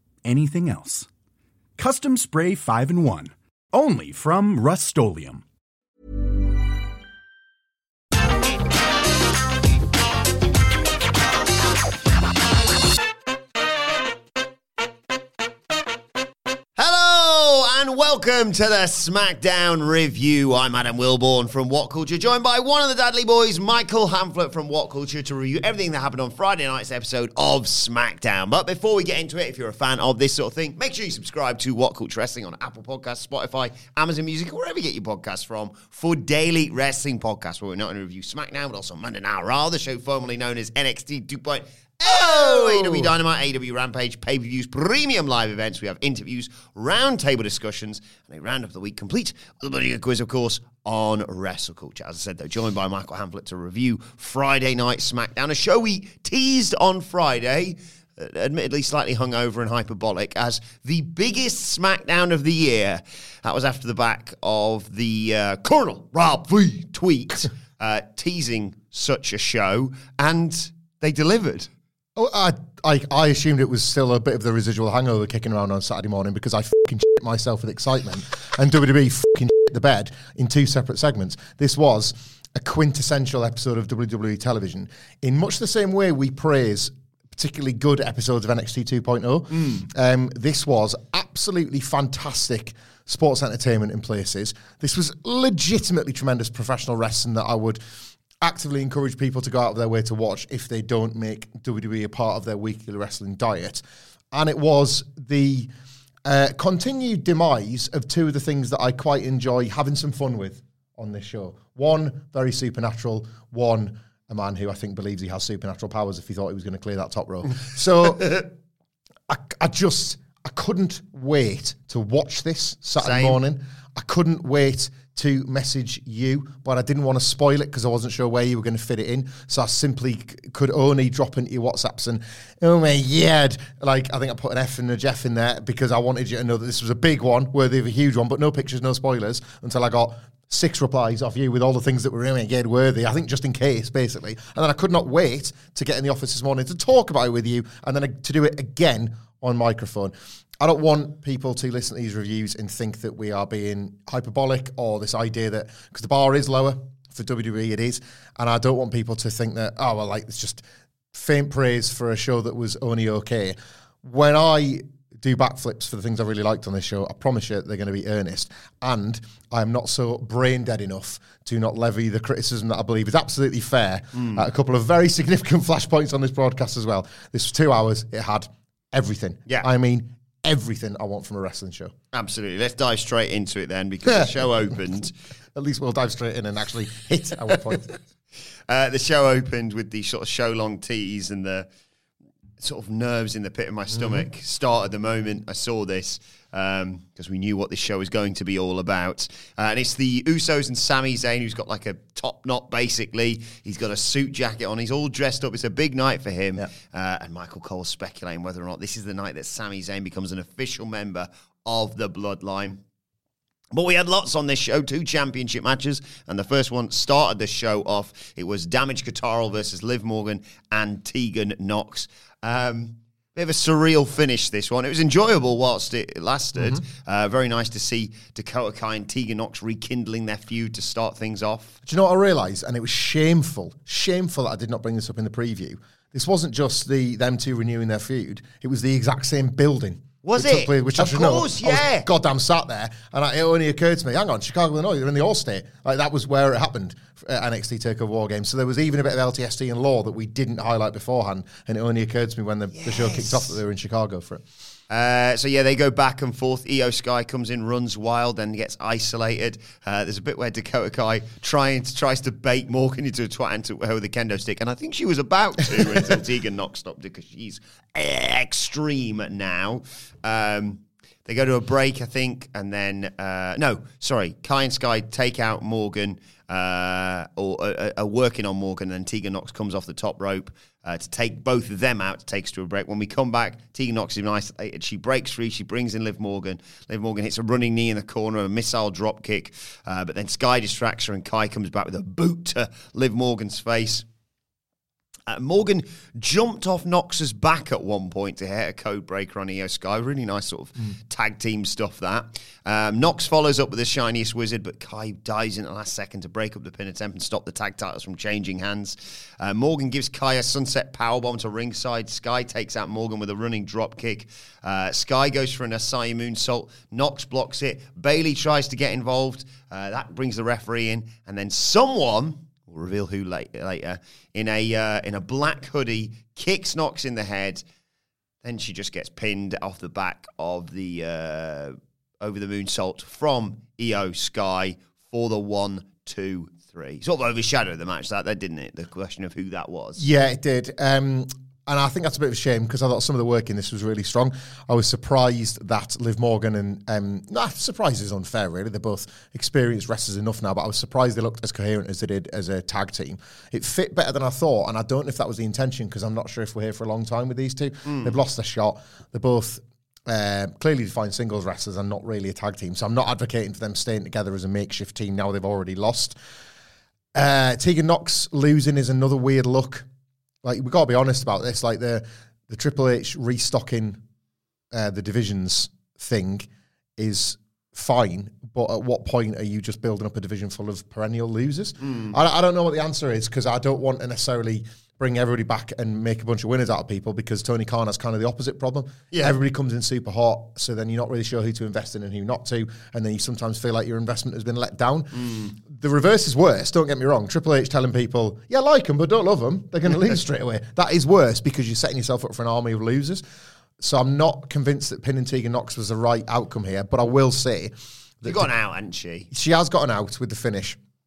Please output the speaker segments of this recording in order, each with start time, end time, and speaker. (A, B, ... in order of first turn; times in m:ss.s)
0:00.2-0:01.1 A
0:01.8-0:05.4 A
0:16.8-1:11.7 B
0:42.0-0:43.1 C
1:12.2-1:37.8 C
1:38.4-1:45.7 C
1:46.2-1:58.5 C
1:59.3-3:01.9 C
2:03.0-2:03.4 B
2:54.1-2:54.5 B
3:02.1-3:05.1 B
3:04.0-3:04.4 C
3:05.6-3:08.0 C
3:08.7-3:11.7 B
3:12.6-3:32.8 B
3:14.0-3:14.2 C
3:33.7-3:51.8 B
3:46.6-3:46.8 C
3:51.8-4:14.4 C
4:00.2-4:02.1 B
4:12.7-4:13.5 B
4:14.9-4:54.0 B
4:55.3-5:27.6 B
5:28.4-5:40.0 B
5:40.0-6:06.2 C
5:57.8-5:58.2 B
6:07.2-6:09.9 C
6:10.4-6:14.0 C
6:14.7-6:43.2 C
6:21.8-6:22.2 B
6:29.1-6:29.4 B
6:35.1-6:35.6 B
6:43.8-6:48.5 C
6:48.2-6:49.3 B
6:49.3-6:50.8 C